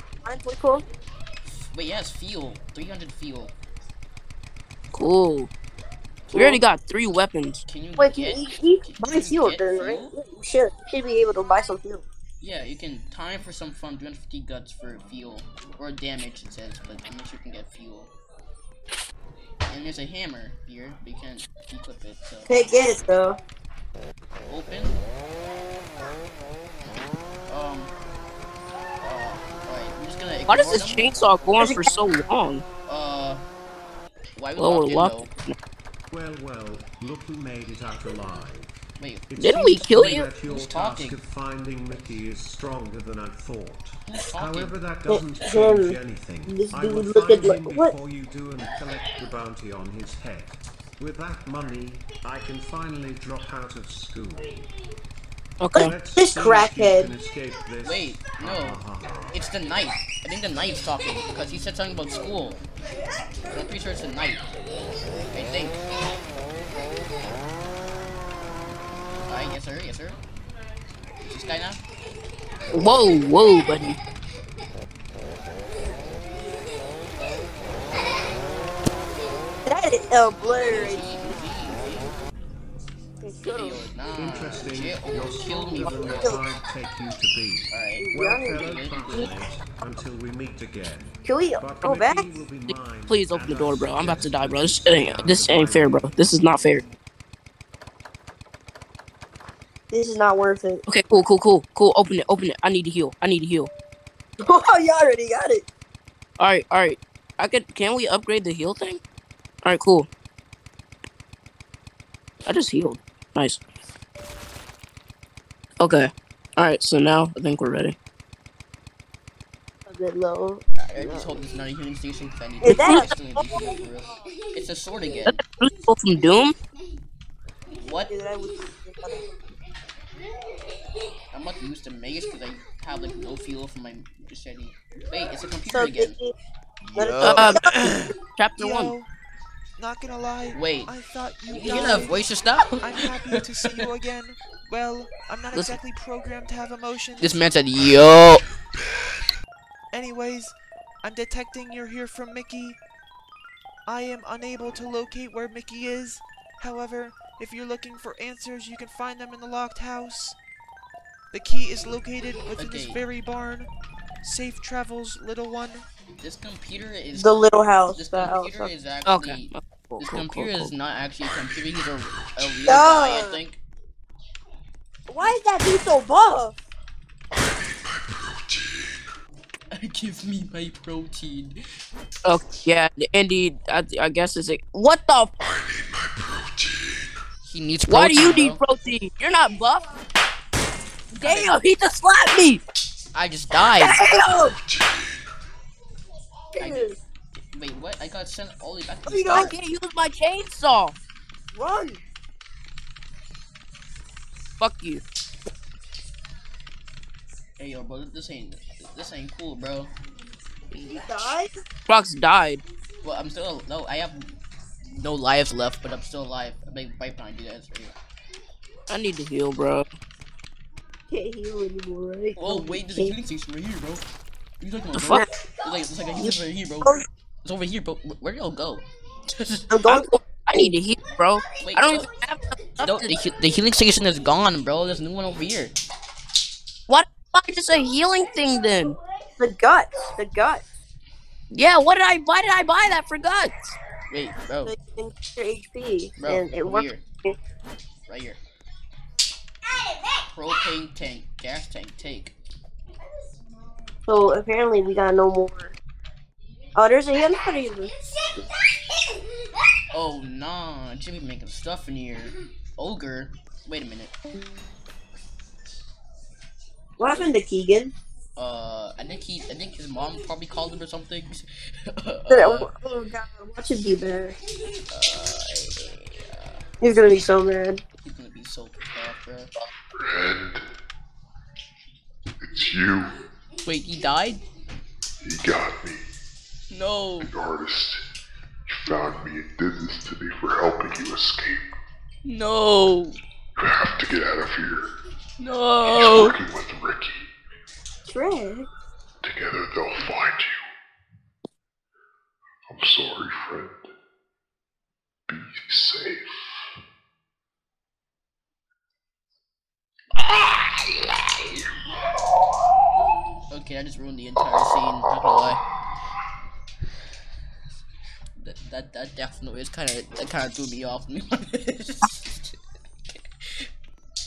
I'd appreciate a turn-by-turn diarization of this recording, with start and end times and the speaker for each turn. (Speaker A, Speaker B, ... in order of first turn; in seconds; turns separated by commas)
Speaker A: 0.2-0.8, Speaker B: 1.6-3.5, Speaker C: 4.9-5.5, Speaker A: 6.3-6.6, Speaker C: 6.3-7.6, Speaker B: 7.7-10.1, Speaker A: 8.0-12.1, Speaker B: 12.4-18.1, Speaker B: 19.7-22.7, Speaker A: 22.5-23.4, Speaker B: 24.4-24.9, Speaker B: 27.5-27.9, Speaker B: 29.0-31.6, Speaker C: 30.5-32.6, Speaker B: 32.9-33.4, Speaker B: 34.4-35.3, Speaker C: 34.6-35.5, Speaker D: 36.1-38.8, Speaker B: 39.0-39.3, Speaker D: 39.3-54.6, Speaker C: 39.4-40.2, Speaker B: 39.8-41.2, Speaker B: 44.1-44.8, Speaker A: 45.1-46.0, Speaker A: 46.5-47.9, Speaker C: 55.6-55.9, Speaker D: 55.7-59.3, Speaker A: 55.8-57.1, Speaker B: 57.8-58.8, Speaker B: 59.3-62.6, Speaker B: 63.5-64.4, Speaker B: 65.3-65.8, Speaker B: 69.3-70.2, Speaker B: 71.2-71.8, Speaker C: 72.7-74.0, Speaker A: 79.7-81.0, Speaker B: 80.6-82.1, Speaker A: 83.2-83.8, Speaker B: 83.5-86.5, Speaker D: 84.1-96.2, Speaker A: 85.8-86.4, Speaker B: 87.7-89.3, Speaker A: 88.0-89.3, Speaker A: 91.2-92.2, Speaker C: 93.1-96.8, Speaker A: 99.9-100.8, Speaker C: 100.9-103.7, Speaker A: 104.4-105.6, Speaker C: 106.4-109.0, Speaker C: 109.6-110.1, Speaker C: 112.5-113.6, Speaker C: 115.8-117.9, Speaker A: 119.9-121.4, Speaker B: 120.8-125.4, Speaker A: 122.6-123.6, Speaker C: 122.6-123.1, Speaker C: 125.3-126.5, Speaker B: 127.8-128.1, Speaker A: 128.1-129.2, Speaker B: 131.3-136.1, Speaker A: 135.7-136.3, Speaker A: 136.9-137.7, Speaker B: 136.9-138.1, Speaker E: 137.2-137.5, Speaker C: 137.2-137.6, Speaker C: 138.3-138.9, Speaker E: 138.6-139.1, Speaker E: 139.8-142.3, Speaker B: 140.5-140.9, Speaker B: 141.5-143.9, Speaker E: 142.8-147.5, Speaker B: 147.2-148.4, Speaker E: 149.9-152.8, Speaker E: 153.8-160.4, Speaker E: 161.3-163.7, Speaker B: 162.6-163.0, Speaker E: 164.2-165.8, Speaker B: 166.2-169.5, Speaker A: 167.1-168.7, Speaker C: 169.1-170.7, Speaker B: 170.0-173.6, Speaker A: 172.7-173.4, Speaker A: 175.1-176.5, Speaker F: 178.3-178.9, Speaker B: 179.7-181.6, Speaker C: 182.2-185.3, Speaker F: 185.4-187.1, Speaker B: 187.4-188.6, Speaker C: 187.9-189.8, Speaker C: 191.1-192.6, Speaker B: 191.2-191.6, Speaker B: 193.1-193.9, Speaker C: 193.8-194.5, Speaker A: 194.1-194.5, Speaker F: 194.6-195.2, Speaker A: 196.6-197.0, Speaker B: 196.6-196.9, Speaker B: 197.5-199.5, Speaker A: 199.1-199.5, Speaker C: 199.3-200.9, Speaker A: 201.5-202.0, Speaker C: 204.6-205.0, Speaker B: 207.6-209.9, Speaker C: 210.7-211.0, Speaker A: 210.9-211.5, Speaker C: 211.9-212.6, Speaker B: 213.0-214.3, Speaker B: 215.0-217.9, Speaker C: 218.9-219.8, Speaker A: 221.1-223.2, Speaker B: 222.4-224.0, Speaker B: 224.6-229.7, Speaker C: 224.9-225.2, Speaker A: 226.2-227.1, Speaker A: 229.7-230.7, Speaker C: 229.9-233.1, Speaker B: 231.6-232.1, Speaker B: 232.8-235.7, Speaker C: 236.9-239.0, Speaker A: 239.4-240.6, Speaker C: 241.5-243.8, Speaker B: 244.1-244.7, Speaker A: 244.7-247.3, Speaker B: 246.2-247.0, Speaker B: 248.1-248.4, Speaker B: 250.3-252.3, Speaker A: 254.1-255.7, Speaker A: 256.7-258.4, Speaker B: 259.9-264.1, Speaker A: 267.0-267.9, Speaker B: 268.4-272.7, Speaker A: 272.3-274.4, Speaker B: 274.9-276.6, Speaker A: 276.8-277.8, Speaker B: 278.0-279.5, Speaker F: 279.9-280.6, Speaker F: 282.4-283.2, Speaker B: 283.6-284.4, Speaker F: 285.2-286.0, Speaker B: 286.7-287.3, Speaker F: 287.2-288.0, Speaker F: 288.7-291.7, Speaker B: 292.2-293.2, Speaker F: 293.6-294.9, Speaker B: 295.4-296.4, Speaker F: 295.8-297.3, Speaker A: 298.1-298.7, Speaker F: 299.2-300.6, Speaker F: 302.7-303.9, Speaker F: 305.3-306.3, Speaker B: 313.5-315.6, Speaker B: 318.4-322.5, Speaker B: 323.1-323.7